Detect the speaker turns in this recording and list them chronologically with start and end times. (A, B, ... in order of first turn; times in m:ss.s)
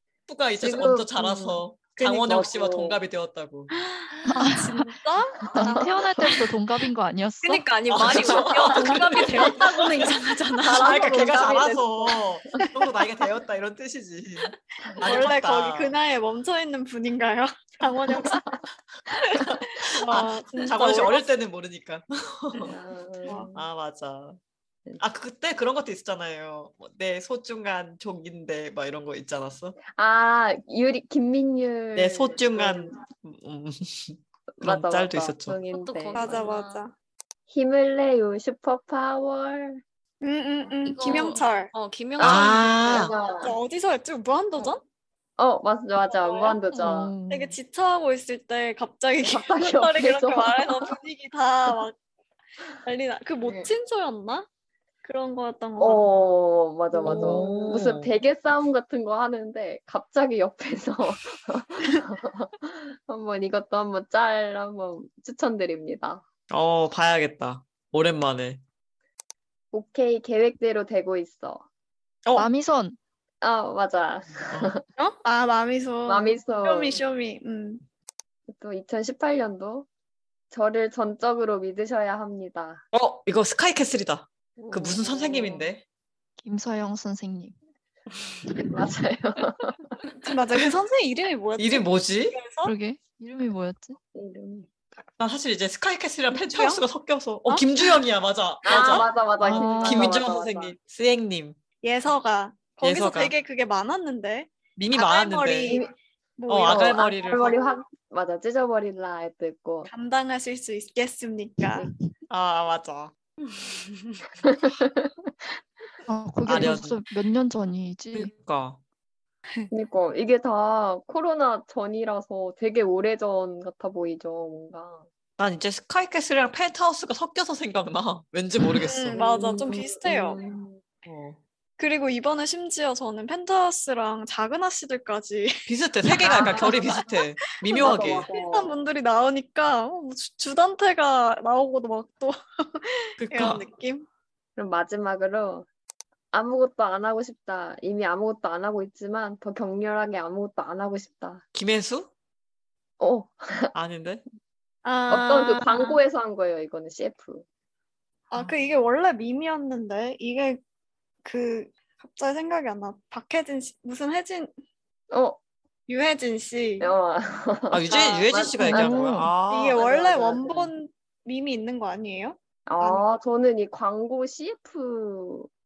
0:00.3-0:03.7 A
0:00.5-0:03.0 B
0:04.3-0:04.8 C
0:04.3-0:05.8 D
0:05.5-0:05.9 B
0:05.5-0:07.6 C
0:07.4-0:11.8 E
0:07.9-0:15.9 A
0:15.0-0:18.4 D
0:18.2-0:18.5 B
0:19.2-0:22.8 A
0:19.8-0:21.2 D
0:22.6-0:23.6 B
0:23.2-0:23.5 D
0:23.5-0:24.4 A
0:25.0-0:29.8 A
0:29.9-0:33.0 B
0:31.9-0:35.6 A
0:34.6-0:36.4 B
0:35.7-0:36.8 E
0:36.1-0:36.9 D
0:37.5-0:39.8 B
0:40.2-0:41.7 D
0:40.8-0:43.1 E
0:42.2-0:43.1 A
0:42.2-0:43.6 B
0:43.2-0:44.8 D
0:45.4-0:47.1 B
0:46.0-0:46.6 D
0:46.7-0:47.6 C
0:47.3-0:52.0 D
0:49.2-0:50.9 B
0:52.8-0:54.5 D
0:55.0-0:56.0 D
0:55.8-1:06.2 B
0:57.0-0:58.1 A
0:57.0-0:57.4 D
1:06.5-1:08.6 A
1:09.7-1:11.6 B
1:12.3-1:13.0 C
1:13.4-1:14.8 B
1:14.5-1:14.8 A
1:15.0-1:17.8 D
1:16.0-1:17.0 B
1:18.5-1:19.9 B
1:20.5-1:22.8 B
1:22.9-1:25.8 A
1:24.6-1:25.7 B
1:26.4-1:27.5 C
1:28.6-1:29.9 B
1:30.2-1:32.7 D
1:31.6-1:32.4 A
1:32.6-1:34.0 C
1:34.1-1:34.7 B
1:35.2-1:41.6 A
1:36.3-1:36.8 D
1:37.4-1:38.0 D
1:38.6-1:40.7 B
1:39.4-1:40.2 C
1:41.8-1:45.8 D
1:42.8-1:43.3 A
1:44.8-1:45.8 A
1:45.6-1:45.9 B
1:46.4-1:47.6 D
1:46.5-1:47.5 A
1:46.6-1:49.9 B
1:49.9-1:51.9 D
1:52.3-1:53.1 A
1:53.4-1:54.2 E
1:54.4-1:55.3 B
1:56.1-1:58.3 C
1:56.4-1:57.0 A
1:58.1-1:58.8 A
1:59.7-2:05.0 B
2:05.4-2:09.2 A
2:08.8-2:10.4 D
2:09.1-2:10.8 B
2:11.0-2:11.4 A
2:11.8-2:24.1 D
2:15.7-2:18.3 A
2:16.2-2:17.0 B
2:17.8-2:18.8 B
2:23.2-2:23.6 A
2:24.6-2:25.7 B
2:26.3-2:31.4 B
2:31.5-2:32.1 A
2:33.0-2:33.7 B
2:33.7-2:34.2 A
2:34.8-2:36.0 D
2:35.1-2:37.4 B
2:35.1-2:35.7 A
2:38.3-2:40.6 D
2:41.2-2:44.5 D
2:45.1-2:45.4 B
2:45.9-2:46.9 D
2:46.8-2:50.7 B
2:47.7-2:49.8 A
2:48.6-2:49.3 C
2:49.5-2:53.0 D
2:52.7-2:55.5 B